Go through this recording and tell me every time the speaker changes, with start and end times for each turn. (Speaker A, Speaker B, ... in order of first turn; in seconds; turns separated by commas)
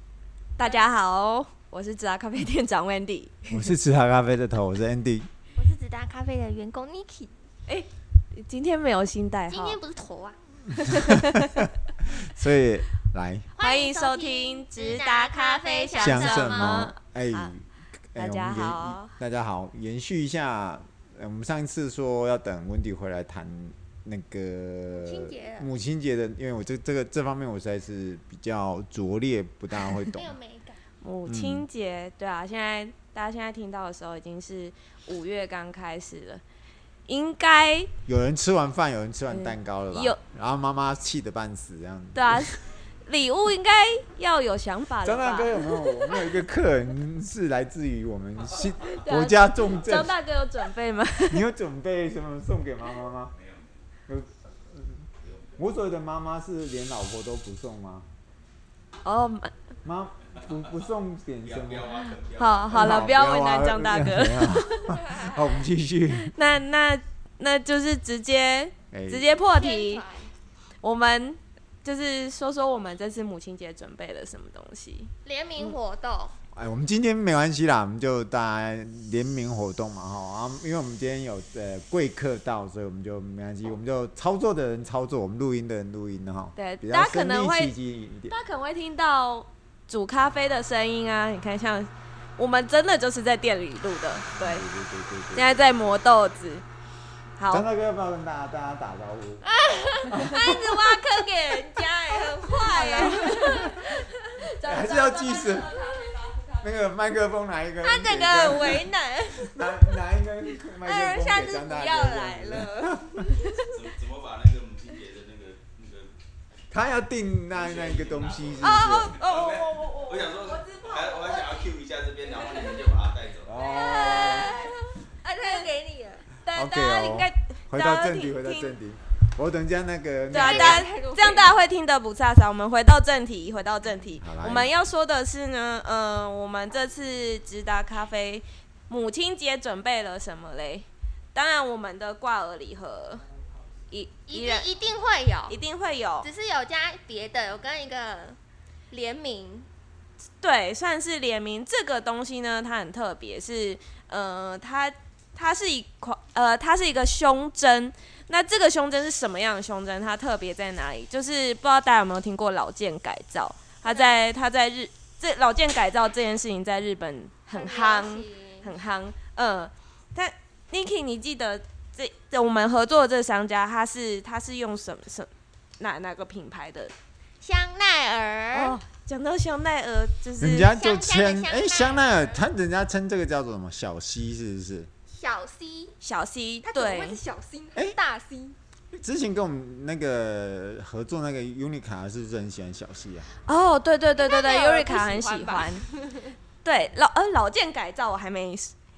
Speaker A: 0.6-3.6, Speaker B: 3.5-5.3, Speaker C: 5.6-7.3, Speaker A: 7.7-9.8, Speaker C: 9.5-10.4, Speaker A: 10.8-11.6, Speaker B: 11.0-13.5, Speaker C: 13.6-16.8, Speaker A: 13.6-17.5, Speaker B: 16.0-30.4, Speaker A: 18.1-19.1, Speaker C: 25.0-25.7, Speaker C: 30.1-30.8, Speaker A: 31.0-36.4, Speaker B: 31.2-31.7, Speaker A: 37.1-37.9, Speaker B: 38.1-42.5, Speaker A: 39.3-40.2, Speaker A: 42.1-46.3, Speaker B: 45.0-50.2, Speaker A: 49.0-51.5, Speaker B: 51.3-53.3, Speaker D: 53.4-53.7, Speaker B: 54.1-58.1, Speaker D: 55.2-55.5, Speaker A: 59.0-59.5, Speaker B: 59.9-62.1, Speaker D: 61.4-63.2, Speaker A: 62.4-65.0, Speaker B: 62.7-66.3, Speaker A: 66.1-70.0, Speaker B: 68.9-69.3, Speaker C: 69.3-70.3, Speaker A: 70.8-75.1, Speaker C: 75.2-76.4, Speaker B: 76.5-88.4, Speaker A: 86.6-87.7, Speaker A: 88.3-94.6, Speaker B: 94.3-95.7, Speaker A: 95.3-96.6, Speaker A: 97.4-97.7, Speaker B: 97.5-99.5, Speaker C: 99.4-104.2, Speaker B: 100.1-101.0, Speaker A: 102.2-103.9, Speaker B: 103.3-103.5, Speaker A: 104.4-106.8, Speaker B: 104.6-105.7, Speaker B: 106.6-108.9, Speaker C: 107.8-110.0, Speaker B: 109.4-113.3, Speaker C: 110.8-113.7, Speaker D: 113.5-116.1, Speaker B: 116.7-119.2, Speaker D: 117.5-123.7, Speaker A: 118.6-121.4, Speaker C: 121.3-121.6, Speaker C: 122.5-122.8, Speaker B: 123.4-124.6, Speaker C: 123.6-126.3, Speaker A: 123.9-124.7, Speaker A: 125.4-125.7, Speaker A: 126.4-128.8, Speaker B: 126.5-130.8, Speaker C: 130.3-131.6, Speaker A: 130.3-143.2, Speaker B: 134.2-134.7, Speaker A: 143.9-144.7, Speaker C: 144.3-145.6, Speaker A: 145.5-146.3, Speaker C: 146.2-148.4, Speaker C: 148.9-149.7, Speaker A: 150.4-176.9, Speaker C: 163.9-164.2, Speaker C: 167.5-168.7, Speaker C: 177.4-178.8, Speaker A: 178.5-180.7, Speaker B: 180.4-184.9, Speaker C: 180.7-182.4, Speaker C: 185.1-186.0, Speaker A: 186.0-187.2, Speaker C: 186.6-188.6, Speaker B: 188.9-193.3, Speaker A: 193.5-195.8, Speaker C: 194.2-196.4, Speaker A: 196.6-198.7